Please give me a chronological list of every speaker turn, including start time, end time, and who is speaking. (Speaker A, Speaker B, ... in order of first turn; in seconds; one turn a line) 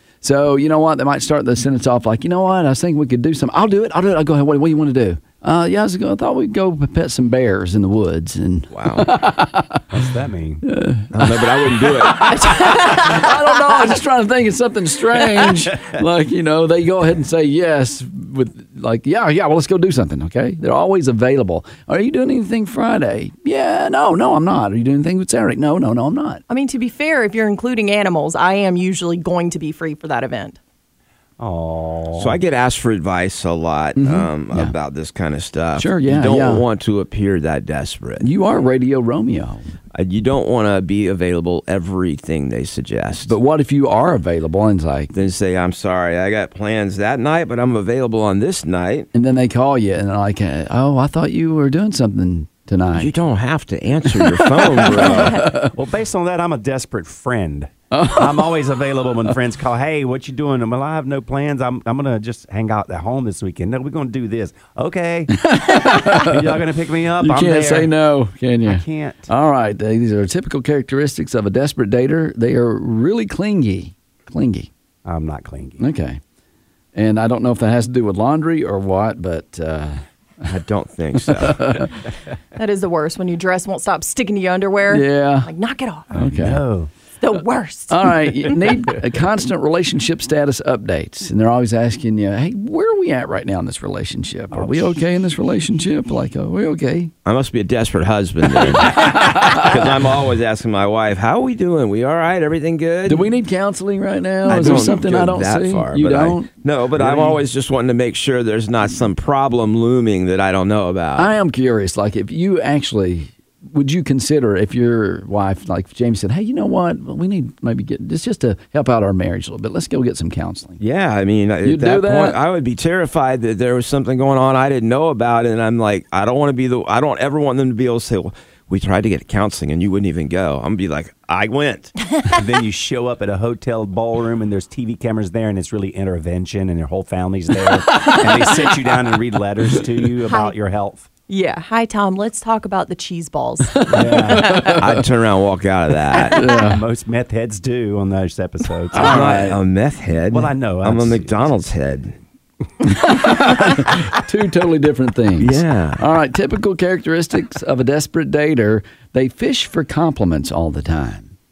Speaker A: 0.2-10.0
Speaker B: 8.7-9.1
Speaker C: 9.9-10.6
Speaker A: 10.6-26.4
Speaker B: 11.1-12.6
Speaker D: 26.5-30.6
Speaker C: 31.4-32.4
Speaker B: 32.2-38.2
Speaker A: 34.0-34.7
Speaker A: 35.7-36.6
Speaker A: 38.2-39.6
Speaker B: 39.9-43.3
Speaker A: 43.2-45.1
Speaker B: 45.1-49.1
Speaker A: 49.1-53.1
Speaker B: 53.0-55.4
Speaker A: 54.1-55.7
Speaker D: 55.2-55.4
Speaker C: 55.7-67.9
Speaker A: 57.9-58.5
Speaker A: 65.3-66.6
Speaker A: 67.2-74.7
Speaker C: 68.6-69.3
Speaker C: 75.0-75.8
Speaker A: 75.8-76.2
Speaker A: 76.9-80.0
Speaker B: 80.5-81.8
Speaker A: 81.2-81.9
Speaker D: 82.5-86.1
Speaker A: 84.9-85.5
Speaker A: 86.1-86.6
Speaker C: 86.1-86.9
Speaker D: 87.2-88.1
Speaker A: 87.9-97.1
Speaker C: 94.5-95.0
Speaker B: 97.2-103.2
Speaker A: 98.6-99.8
Speaker A: 103.0-106.5
Speaker B: 104.5-111.3
Speaker C: 107.0-107.4
Speaker A: 111.2-120.8
Speaker B: 120.8-131.9
Speaker A: 121.6-122.4
Speaker C: 132.3-141.1
Speaker D: 140.3-140.5
Speaker D: 141.3-143.9
Speaker A: 143.7-145.0
Speaker C: 143.9-144.7
Speaker D: 144.4-144.7
Speaker B: 144.7-146.4
Speaker A: 146.3-146.8
Speaker C: 146.5-149.4
Speaker A: 148.9-149.6
Speaker B: 148.9-152.2
Speaker C: 150.3-151.4
Speaker A: 152.8-161.3
Speaker B: 155.4-156.0